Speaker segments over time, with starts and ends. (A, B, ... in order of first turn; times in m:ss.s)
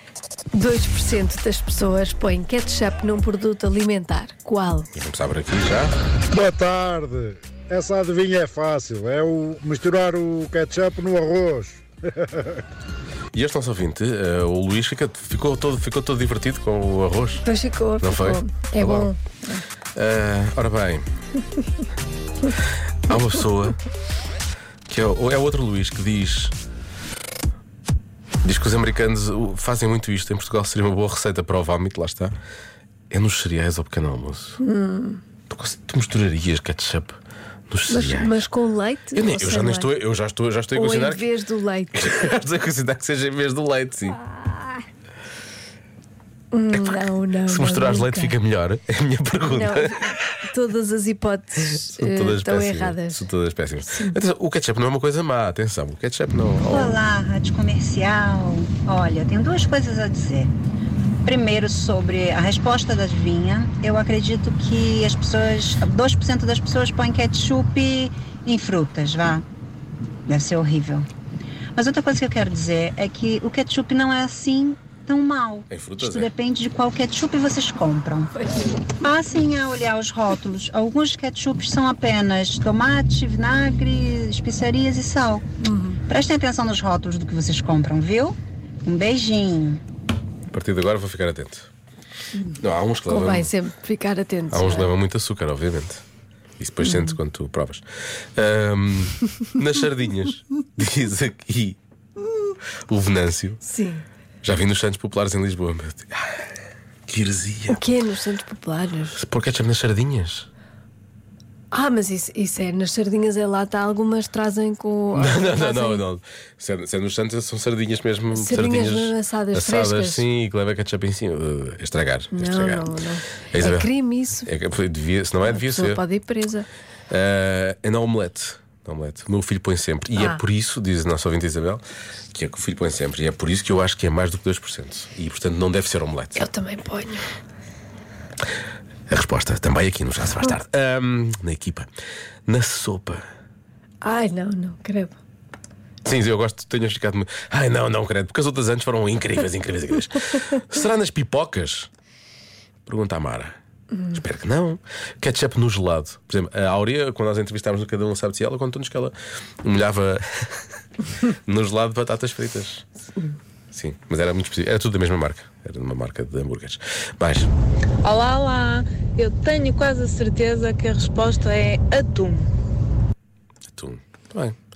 0:00.5-0:04.9 A
0:04.9-0:05.9 B
0:06.3-0:12.6 C
0:13.3-0:17.4 B
0:17.4-0:19.6 A
0:18.0-0:19.1 B
0:20.0-0:21.0 B
0:23.1-0:23.8 B
0:24.9-0:26.5 B
0:28.4-0:32.3 B
0:33.1-0:34.6 B
0:34.6-0:35.2 A
0:35.5-0:38.5 B
0:37.9-0:39.9 A
0:39.2-0:41.3 B
0:40.7-0:42.2 A
0:41.9-0:44.2 B
0:44.3-0:44.8 A
0:46.5-0:48.4 A
0:46.7-0:50.2 B
0:49.5-0:53.3 A
0:51.7-0:57.0 B
0:53.9-0:54.2 A
0:56.6-1:00.5 D
1:01.2-1:09.4 D
1:10.3-1:11.1 D
1:11.8-1:18.3 D
1:15.7-1:16.3 B
1:19.0-1:25.4 D
1:25.6-1:26.0 A
1:26.1-1:29.8 D
1:30.5-1:31.7 B
1:32.4-1:34.9 A
1:32.6-1:33.5 B
1:34.5-1:36.0 B
1:36.6-1:41.8 B
1:36.8-1:37.2 A
1:42.9-1:43.6 B
1:43.6-1:44.1 A
1:44.4-1:46.5 B
1:47.1-1:47.8 B
1:47.7-1:49.2 A
1:49.1-1:50.5 B
1:51.7-1:56.0 A
1:55.1-2:02.9 B
1:58.3-2:00.2 A
2:02.3-2:04.5 A
2:03.5-2:03.9 B
2:04.4-2:06.0 B
2:05.4-2:06.7 A
2:07.1-2:16.5 B
2:10.2-2:10.4 A
2:16.4-2:17.3 A
2:19.1-2:21.9 B
2:22.5-2:23.2 B
2:24.0-2:25.2 A
2:26.0-2:31.9 B
2:32.8-2:33.6 B
2:34.1-2:40.6 B
2:41.5-2:42.9 B
2:43.7-2:47.5 B
2:48.0-2:52.5 E
2:53.7-2:54.6 B